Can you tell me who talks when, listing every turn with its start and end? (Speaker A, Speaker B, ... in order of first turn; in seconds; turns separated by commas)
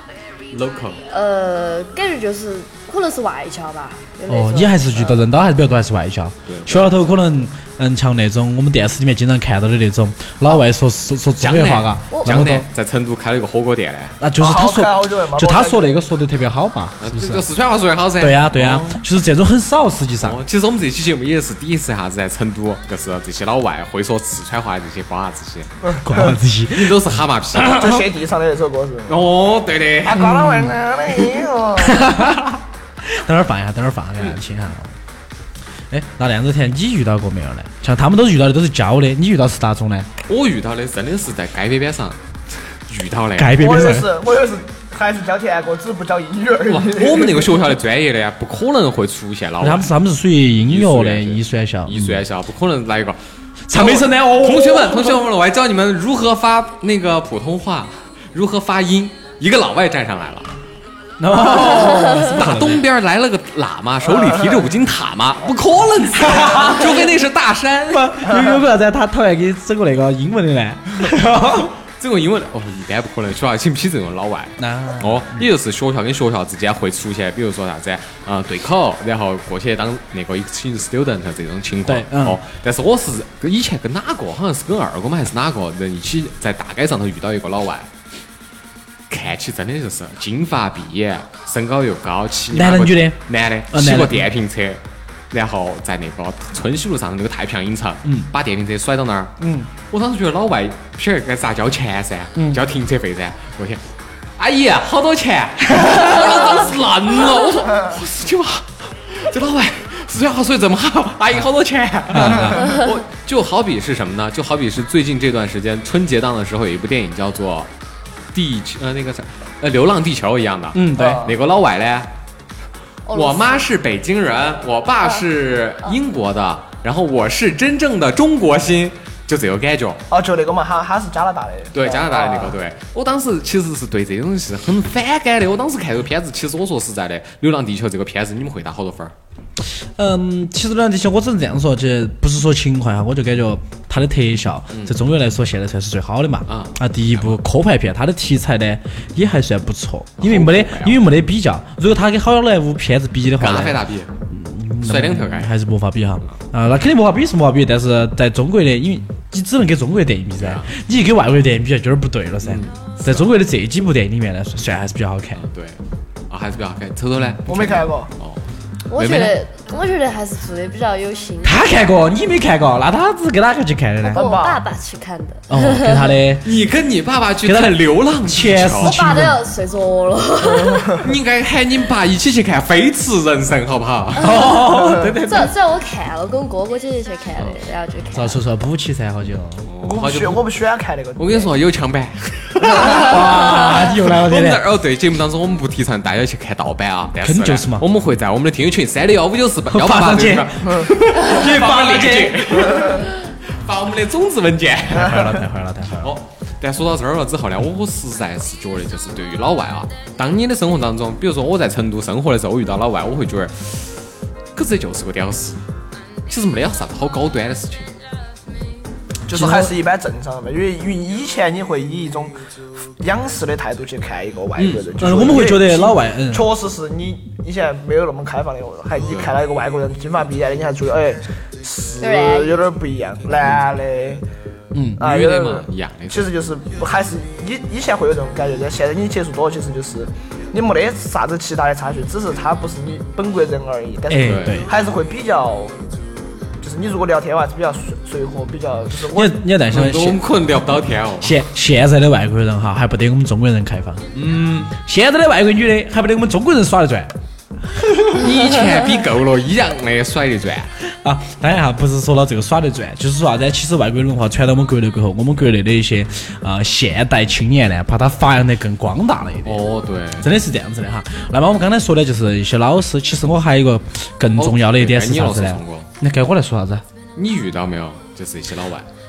Speaker A: 0.5-1.0, Speaker B: 1.1-5.2, Speaker C: 4.3-12.7, Speaker A: 6.5-6.9, Speaker A: 11.4-14.2, Speaker C: 14.2-17.5, Speaker D: 14.4-16.0, Speaker A: 17.0-19.0, Speaker C: 18.2-20.4, Speaker A: 20.2-25.9, Speaker C: 26.0-27.0, Speaker A: 26.6-28.0, Speaker C: 27.6-28.0, Speaker D: 27.7-29.3, Speaker A: 29.1-30.4, Speaker D: 30.0-32.1, Speaker C: 31.8-34.9, Speaker C: 35.9-40.1, Speaker A: 40.2-42.2, Speaker A: 42.9-43.6, Speaker C: 43.4-44.1, Speaker D: 43.6-47.5, Speaker A: 46.7-49.9, Speaker C: 49.6-52.2, Speaker A: 50.6-53.2, Speaker C: 53.7-55.2, Speaker A: 53.7-60.5, Speaker C: 61.2-62.9, Speaker A: 61.3-68.4, Speaker C: 66.1-67.1, Speaker C: 67.9-71.8, Speaker A: 72.0-87.9, Speaker C: 74.6-75.5, Speaker C: 81.9-82.4, Speaker A: 89.1-99.3, Speaker C: 92.5-94.3, Speaker C: 99.4-99.7, Speaker A: 99.9-103.9, Speaker C: 102.4-102.6, Speaker A: 104.4-117.7, Speaker C: 112.1-112.8, Speaker A: 118.3-122.1, Speaker C: 120.7-121.3, Speaker D: 121.0-121.3, Speaker B: 123.1-123.7, Speaker A: 123.1-130.0, Speaker D: 130.1-132.6, Speaker A: 131.7-139.1, Speaker C: 140.0-165.4, Speaker A: 144.7-145.0, Speaker A: 146.5-147.4, Speaker A: 150.2-151.0, Speaker A: 153.4-154.1, Speaker A: 154.8-155.5, Speaker A: 160.4-160.7, Speaker A: 162.4-163.3, Speaker A: 165.4-165.8, Speaker A: 166.3-168.4, Speaker D: 167.5-168.1, Speaker B: 168.9-171.7, Speaker A: 168.9-169.4, Speaker C: 171.4-174.3, Speaker B: 174.1-176.1, Speaker D: 174.1-174.6, Speaker C: 175.5-176.5, Speaker A: 176.4-179.0, Speaker C: 177.4-179.4, Speaker B: 178.8-181.0, Speaker D: 180.6-181.0, Speaker A: 181.0-184.4, Speaker C: 184.2-185.5, Speaker A: 184.9-185.5, Speaker B: 185.2-188.4, Speaker C: 188.1-189.7, Speaker A: 189.7-190.5, Speaker D: 189.8-191.5, Speaker A: 191.2-205.3, Speaker C: 192.7-194.6, Speaker C: 197.2-197.9, Speaker C: 199.7-203.0, Speaker C: 204.9-206.1, Speaker A: 206.0-213.9, Speaker A: 214.6-215.6, Speaker A: 216.3-217.9, Speaker D: 219.3-222.4, Speaker C: 219.3-219.8, Speaker D: 223.0-234.2, Speaker A: 224.6-224.9, Speaker C: 225.0-226.5, Speaker A: 229.0-229.3, Speaker B: 232.0-232.6, Speaker C: 234.7-235.0, Speaker D: 235.0-245.8, Speaker A: 235.0-236.3, Speaker C: 244.1-244.7, Speaker A: 244.2-244.7, Speaker D: 246.6-249.4, Speaker C: 249.1-250.2, Speaker A: 249.7-251.4, Speaker C: 251.2-257.1, Speaker A: 254.1-254.7, Speaker A: 258.0-260.7, Speaker C: 260.9-269.6, Speaker A: 269.4-270.3, Speaker C: 270.2-276.8, Speaker A: 274.4-275.9, Speaker A: 277.2-278.9